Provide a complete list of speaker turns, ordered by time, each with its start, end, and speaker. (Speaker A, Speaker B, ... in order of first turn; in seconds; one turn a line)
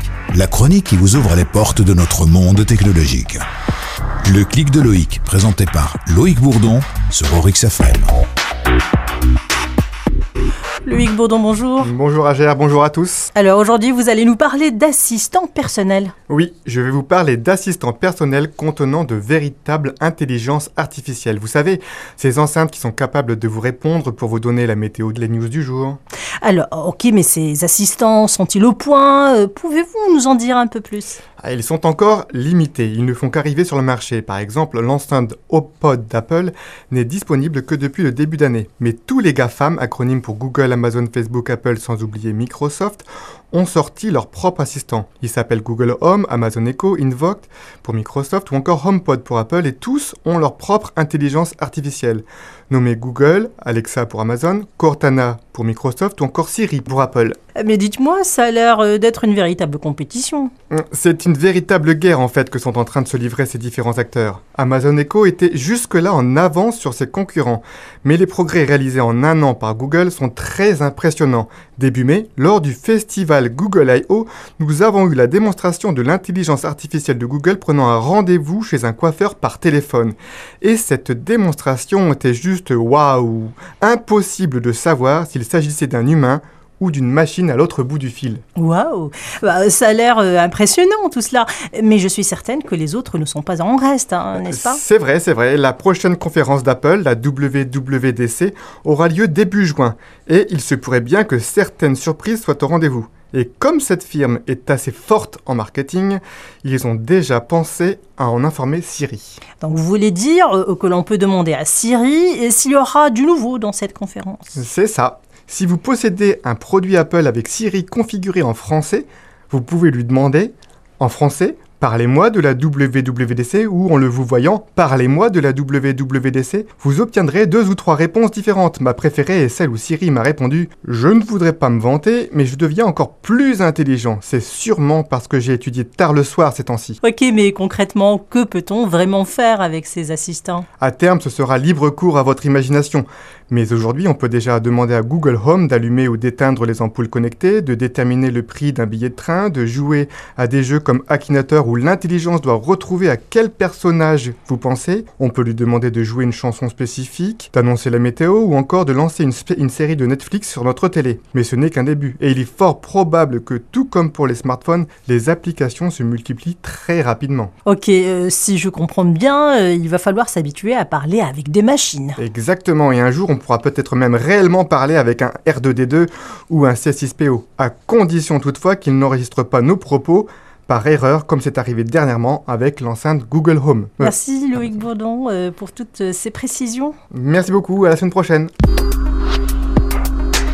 Speaker A: 0.3-3.5
Speaker A: 4.2-8.2
Speaker B: 10.8-11.9
Speaker C: 11.8-13.3
Speaker B: 13.3-16.1
Speaker C: 16.3-26.0
Speaker B: 26.4-31.2
Speaker C: 31.4-57.4
Speaker B: 57.5-60.5
Speaker C: 60.7-88.4
Speaker B: 88.6-94.8
Speaker C: 94.3-109.4
Speaker B: 109.6-114.6
Speaker C: 114.6-137.0
Speaker B: 137.0-140.7
Speaker C: 140.8-167.5
Speaker B: 167.7-172.2
Speaker C: 172.2-184.2
Speaker B: 184.0-187.0
Speaker C: 187.1-188.5